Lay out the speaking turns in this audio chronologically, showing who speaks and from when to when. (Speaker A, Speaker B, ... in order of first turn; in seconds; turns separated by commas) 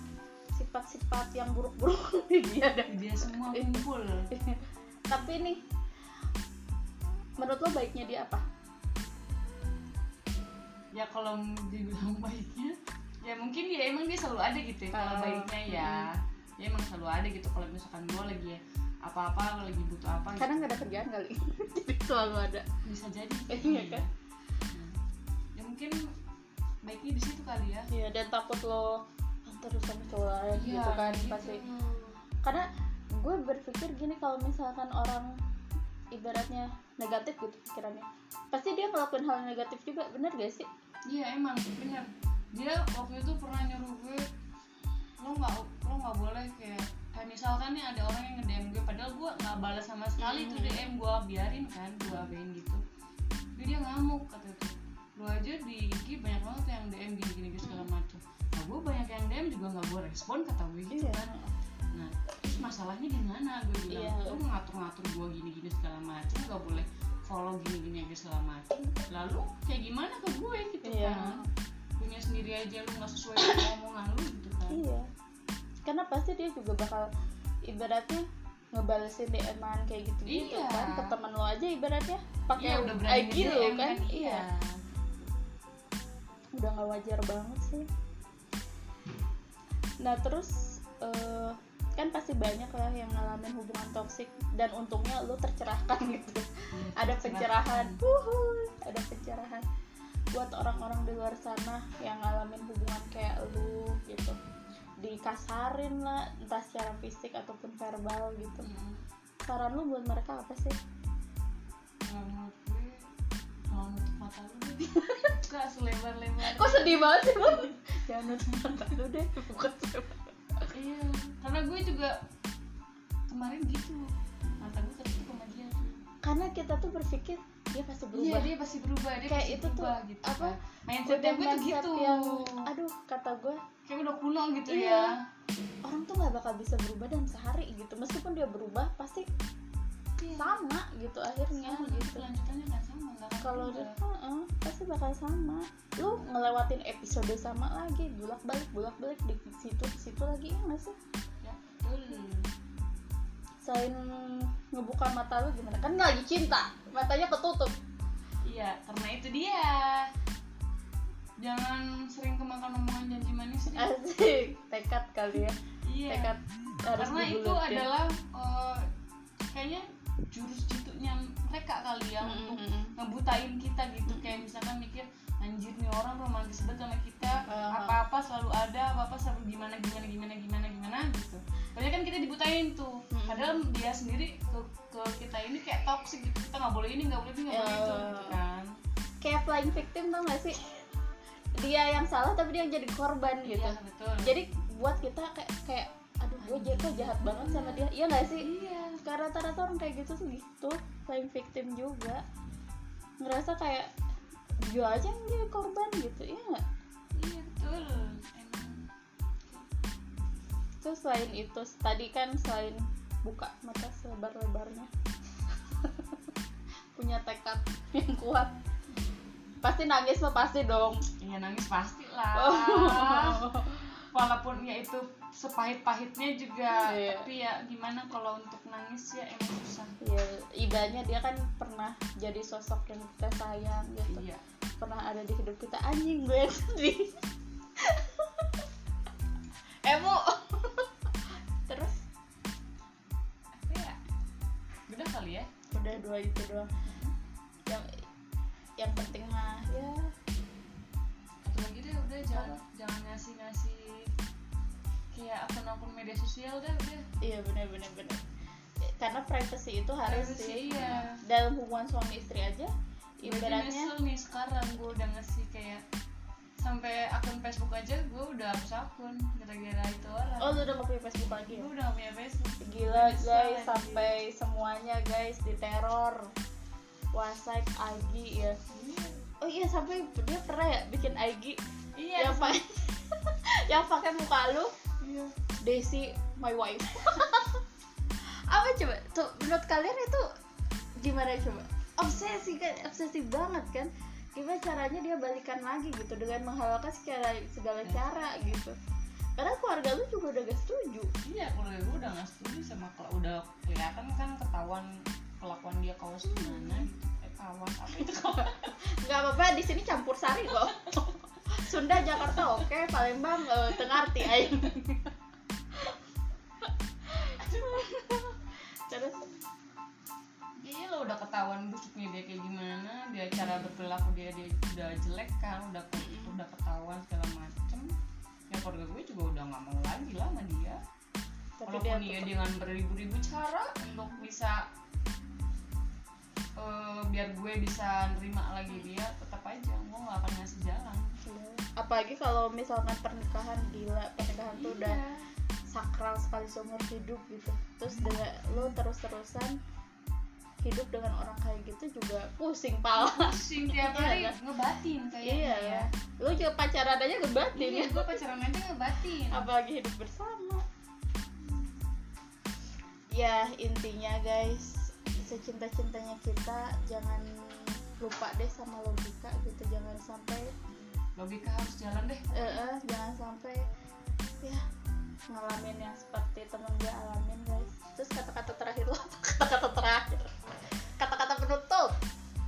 Speaker A: 0.5-5.6, Speaker B: 2.9-4.3, Speaker A: 7.4-8.4, Speaker B: 10.9-20.7, Speaker A: 14.9-16.1, Speaker A: 20.4-22.6, Speaker B: 22.8-24.1, Speaker A: 23.5-24.0, Speaker B: 24.7-25.0, Speaker B: 25.6-26.0, Speaker B: 26.8-27.9, Speaker A: 27.9-31.6, Speaker B: 30.5-32.2, Speaker A: 32.4-35.3, Speaker A: 36.1-40.7, Speaker B: 41.1-44.3, Speaker B: 45.2-52.8, Speaker A: 50.2-50.9, Speaker B: 53.6-61.3, Speaker A: 57.6-57.9, Speaker A: 60.9-61.5, Speaker B: 61.9-71.4, Speaker A: 63.9-64.4, Speaker A: 70.8-71.5, Speaker B: 72.0-74.8, Speaker A: 74.7-75.1, Speaker A: 75.8-77.1, Speaker A: 77.7-84.4, Speaker B: 80.2-81.1, Speaker B: 82.5-84.8, Speaker A: 86.5-87.9, Speaker A: 90.0-99.7, Speaker B: 96.7-98.0, Speaker A: 100.3-104.3, Speaker A: 105.0-108.7, Speaker B: 108.6-109.0, Speaker A: 109.4-110.8, Speaker B: 112.0-113.0, Speaker B: 113.7-117.7, Speaker A: 114.9-115.3, Speaker A: 116.4-120.7, Speaker B: 120.7-122.2, Speaker B: 123.3-124.1, Speaker B: 124.6-126.0, Speaker A: 126.2-128.5, Speaker B: 128.1-132.6, Speaker A: 129.2-133.6, Speaker B: 133.8-135.2, Speaker A: 134.7-135.1, Speaker A: 135.8-139.3, Speaker B: 140.2-140.6, Speaker A: 140.4-142.2, Speaker B: 141.6-144.0, Speaker A: 143.4-150.9, Speaker B: 151.4-152.5, Speaker A: 153.6-157.7, Speaker B: 158.4-160.1, Speaker B: 161.4-163.9, Speaker A: 163.7-167.9, Speaker B: 165.8-166.3, Speaker B: 166.9-168.8, Speaker B: 169.5-188.7, Speaker A: 172.2-172.9, Speaker A: 174.1-174.4, Speaker A: 177.5-178.0, Speaker A: 183.1-183.4, Speaker A: 187.5-188.4, Speaker A: 189.2-190.6, Speaker A: 191.6-198.5, Speaker B: 193.4-194.3, Speaker B: 196.4-197.9, Speaker B: 198.4-199.0, Speaker A: 199.0-202.2, Speaker A: 203.2-203.9, Speaker A: 204.6-206.6, Speaker B: 207.2-208.9, Speaker A: 210.8-214.9, Speaker A: 215.7-216.1, Speaker A: 216.9-218.5, Speaker A: 219.6-221.0, Speaker B: 221.2-223.5, Speaker A: 222.3-224.0, Speaker B: 224.1-229.9, Speaker A: 226.7-227.3, Speaker A: 230.0-234.2, Speaker B: 234.1-234.4, Speaker A: 234.8-237.2, Speaker A: 237.8-238.7, Speaker A: 239.8-240.9, Speaker A: 241.7-242.0, Speaker B: 243.6-244.0, Speaker B: 244.9-245.5, Speaker A: 245.7-246.7, Speaker B: 246.8-247.1, Speaker A: 247.7-248.0, Speaker A: 248.8-250.1, Speaker B: 251.4-254.1, Speaker B: 255.1-257.1, Speaker A: 257.2-258.2, Speaker A: 258.8-263.9, Speaker B: 260.1-261.2, Speaker B: 263.2-265.8, Speaker B: 266.6-270.6, Speaker A: 270.4-271.7, Speaker B: 271.5-274.1, Speaker A: 272.6-276.3, Speaker A: 277.1-278.6, Speaker B: 278.7-279.2, Speaker A: 279.4-281.6, Speaker B: 281.9-282.6, Speaker A: 282.2-284.7, Speaker B: 285.0-285.3, Speaker A: 285.6-287.6, Speaker A: 288.2-290.3, Speaker A: 291.0-298.7, Speaker B: 297.8-298.2, Speaker A: 299.4-301.1, Speaker B: 301.2-308.7, Speaker A: 306.2-306.9, Speaker A: 308.1-315.1, Speaker A: 317.1-319.3, Speaker B: 320.6-327.9, Speaker A: 326.0-326.3, Speaker B: 328.5-330.8, Speaker A: 331.6-332.3, Speaker B: 331.6-334.6, Speaker B: 336.6-341.1, Speaker A: 341.2-345.0, Speaker B: 344.5-345.2, Speaker A: 345.7-349.6, Speaker A: 350.6-354.4, Speaker B: 353.0-355.9, Speaker A: 355.2-358.2, Speaker B: 357.5-359.5, Speaker A: 359.3-360.6, Speaker A: 363.1-370.5, Speaker B: 371.1-372.5, Speaker A: 372.3-373.6, Speaker A: 375.3-380.3, Speaker A: 381.0-381.9